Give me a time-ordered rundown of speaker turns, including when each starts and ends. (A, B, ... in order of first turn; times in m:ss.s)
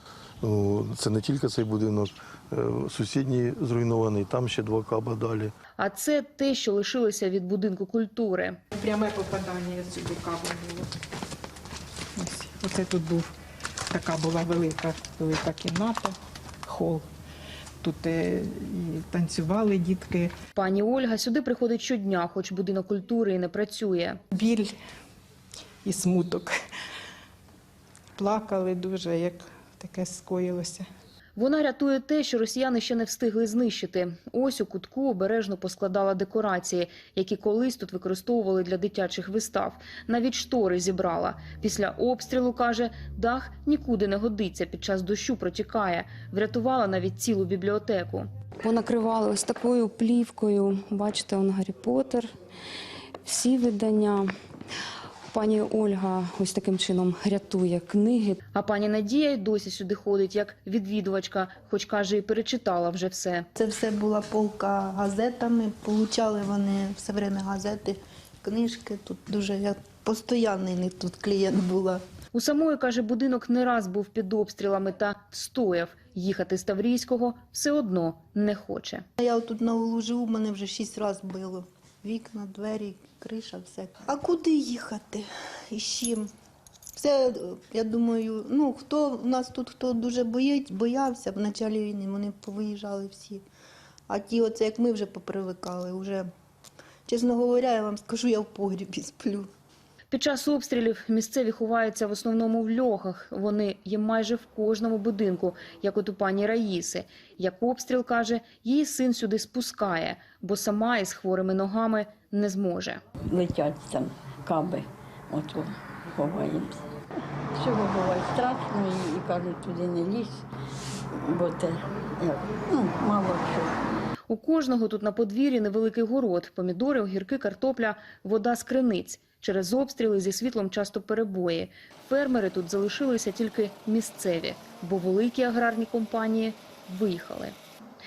0:00.4-0:05.5 A
0:05.8-0:08.6 B
0:08.7-0:10.9 C
0:12.2-0:13.3 C
0:13.9-0:17.0 C
0:17.8-0:20.3 C
0:20.6-0:24.2 B
0:24.3-0:24.7 C
0:25.8-0:26.6 C
0:28.2-0:30.8 C
0:31.4-0:48.3 B
0:48.6-0:52.2 D
0:49.4-0:49.7 B
0:53.3-0:54.2 D
0:55.3-0:58.4 D
0:56.4-0:56.8 B
0:58.3-1:03.5 B
1:03.5-1:12.0 E
1:12.3-1:19.0 B
1:19.2-1:26.3 E
1:27.0-1:33.4 E
1:34.1-1:36.3 E
1:37.0-1:39.5 E
1:40.1-1:53.0 B
1:53.3-1:56.8 F
1:57.5-2:00.4 F
2:01.2-2:03.7 F
2:04.3-2:17.5 B